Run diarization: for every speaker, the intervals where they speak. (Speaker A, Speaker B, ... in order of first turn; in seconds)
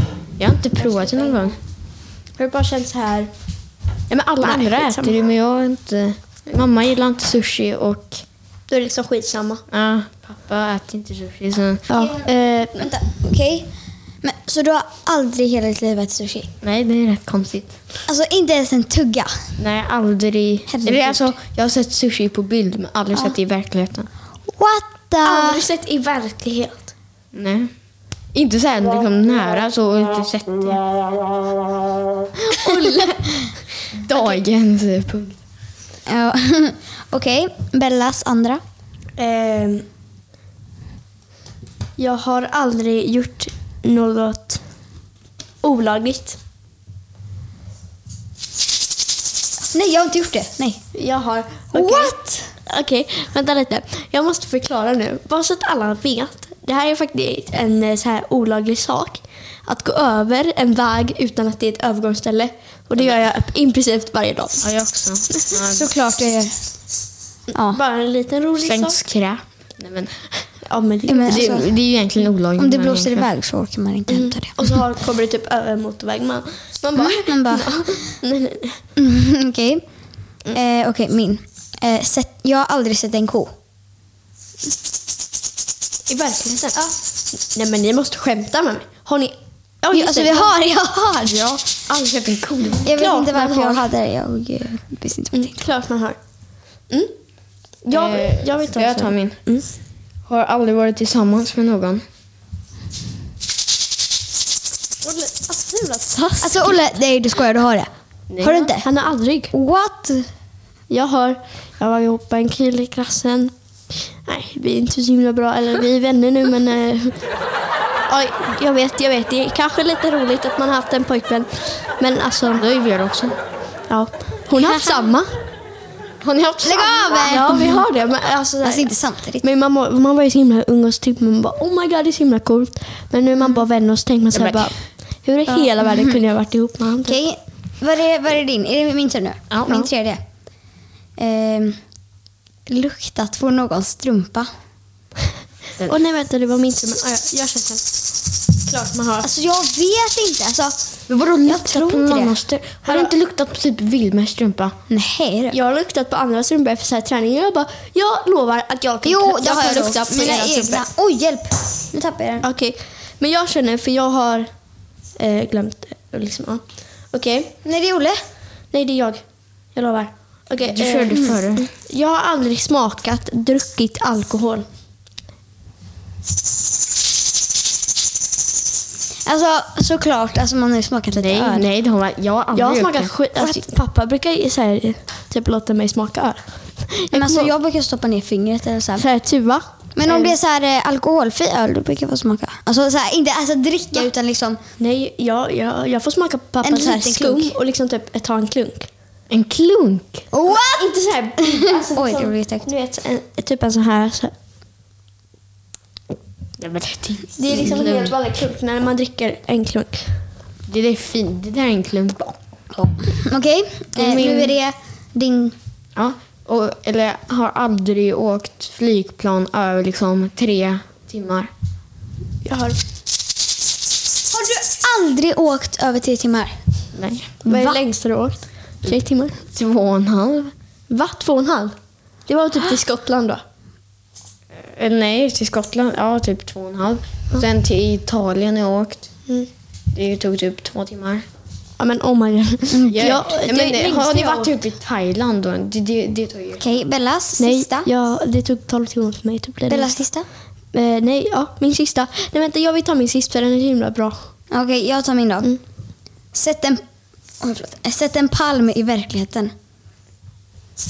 Speaker A: 0.4-1.6, 4.1-8.2, 9.7-11.9, 16.6-17.8, 19.6-24.1, 27.3-30.9, 33.9-35.4, 64.6-65.8, 68.6-70.7, 71.3-73.3, 91.9-92.9, 97.9-102.0, 108.3-108.7, 122.5-123.3, 126.2-127.5, 134.3-134.8, 139.5-139.9, 151.1-154.8, 170.7-171.7, 181.2-183.2, 199.3-200.3, 206.6-208.1, 210.7-212.3, 214.1-214.4, 215.9-221.5, 226.9-227.3, 229.5-230.5, 234.7-241.2, 242.9-246.8
Speaker B: 0.8-1.4, 2.3-3.3, 4.4-5.1, 8.7-9.6, 11.9-12.9, 25.2-26.9, 32.5-33.3, 39.2-39.9, 42.0-44.7, 45.6-46.4, 50.9-64.7, 67.7-69.0, 70.7-71.5, 74.1-78.8, 86.1-90.5, 93.0-93.8, 95.3-99.7, 105.0-107.0, 108.8-109.5, 110.9-117.3, 118.1-122.6, 123.9-125.3, 127.3-137.2, 145.8-149.3, 152.8-153.1, 155.5-160.9, 162.4-167.5, 168.7-174.7, 182.5-187.5, 189.0-190.3, 194.8-198.9, 200.4-204.3, 207.4-210.2, 214.1-214.4, 222.4-222.8, 227.5-229.4, 230.9-233.4, 241.8-244.5, 247.4-250.0, 250.7-254.3
Speaker C: 12.0-13.7, 14.2-16.5, 18.1-19.6, 20.7-21.3, 24.5-25.6, 36.0-38.6, 49.7-50.9, 51.7-52.5, 65.7-66.7, 67.5-67.8, 71.1-71.8, 72.5-74.8, 77.0-78.2, 79.0-79.8, 80.5-83.5, 89.9-91.8, 92.8-95.6, 106.4-108.9, 109.5-110.3, 124.6-125.1, 126.6-127.8, 128.6-129.4, 135.5-136.2, 137.0-140.2, 141.2-141.8, 142.7-144.5, 149.2-152.4, 154.9-155.6, 159.0-162.4, 167.6-168.2, 179.2-181.7, 183.4-183.6, 187.1-189.1, 189.9-194.6, 196.6-197.6, 200.3-200.8, 201.8-202.7, 212.7-215.5, 224.3-226.8, 227.4-227.8, 242.7-243.1, 246.6-247.9, 249.7-250.3, 254.5-255.7, 256.3-259.5